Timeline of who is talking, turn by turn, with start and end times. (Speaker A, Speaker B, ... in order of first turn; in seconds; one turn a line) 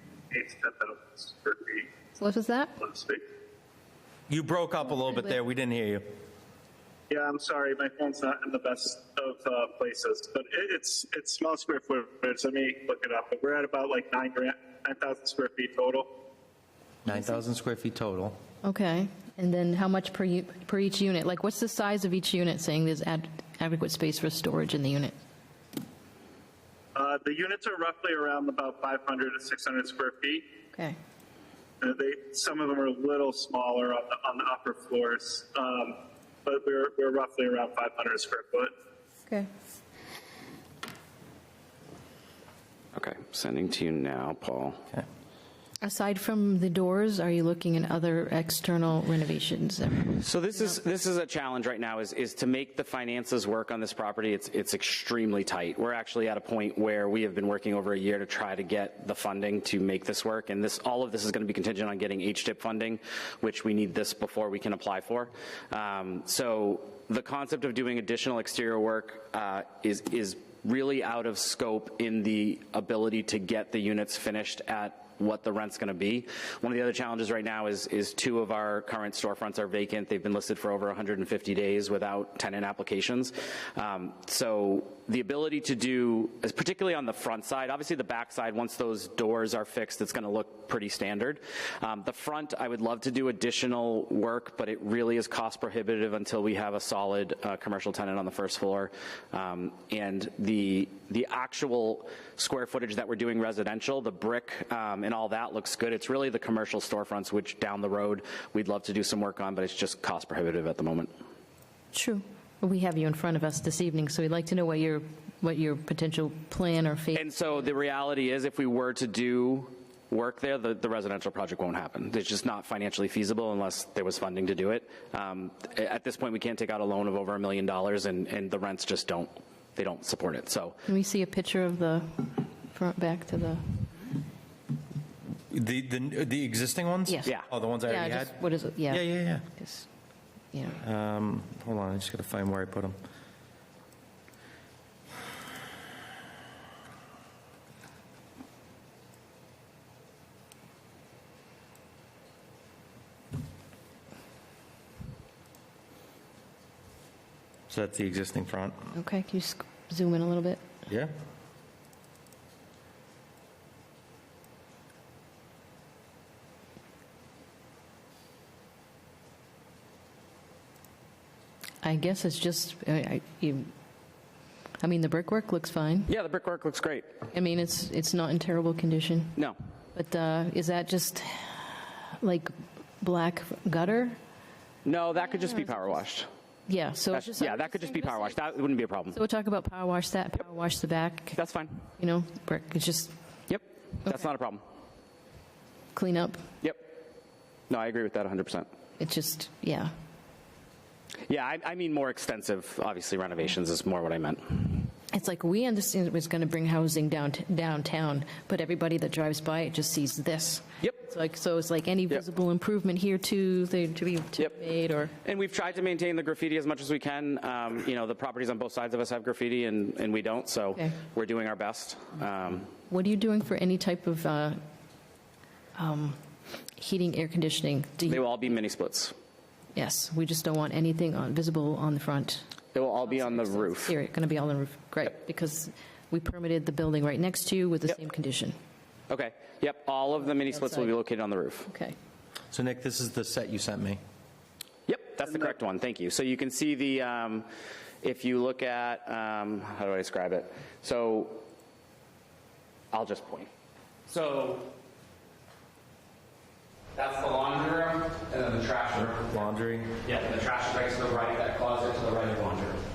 Speaker A: 0.3-1.9
Speaker B: 2.2-2.7
Speaker A: 2.8-3.2
Speaker C: 4.3-6.0
Speaker A: 7.1-16.1
Speaker C: 17.0-18.4
Speaker B: 18.6-25.1
Speaker A: 26.9-30.5
Speaker A: 31.8-38.7
Speaker D: 42.9-44.8
Speaker B: 45.8-50.2
Speaker D: 50.1-111.1
Speaker B: 111.9-117.3
Speaker D: 117.1-130.8
Speaker B: 130.8-133.9
Speaker C: 135.5-139.4
Speaker B: 137.1-139.9
Speaker B: 140.5-140.8
Speaker C: 140.8-142.9
Speaker C: 157.7-158.7
Speaker B: 158.9-160.6
Speaker C: 160.9-161.1
Speaker B: 171.8-173.7
Speaker B: 174.8-176.1
Speaker D: 176.1-177.1
Speaker B: 177.3-179.3
Speaker B: 179.9-184.2
Speaker D: 184.8-186.3
Speaker B: 185.2-186.0
Speaker B: 186.7-191.4
Speaker D: 187.1-189.2
Speaker D: 191.3-191.8
Speaker B: 192.0-193.1
Speaker D: 193.5-194.6
Speaker B: 195.9-196.4
Speaker D: 196.6-196.9
Speaker D: 197.7-198.7
Speaker B: 199.0-199.9
Speaker D: 201.3-204.9
Speaker B: 205.1-215.1
Speaker D: 215.2-222.7
Speaker B: 222.9-224.6
Speaker B: 225.8-226.2
Speaker B: 226.7-228.2
Speaker D: 228.1-229.1
Speaker B: 229.7-238.5
Speaker D: 232.7-233.9
Speaker D: 239.1-241.7
Speaker B: 240.3-240.9
Speaker B: 241.7-241.9
Speaker C: 242.5-244.0
Speaker D: 244.9-247.5
Speaker D: 248.0-251.4
Speaker D: 252.9-253.5
Speaker D: 254.1-254.7
Speaker D: 256.9-259.5
Speaker C: 259.1-259.9
Speaker D: 260.0-262.8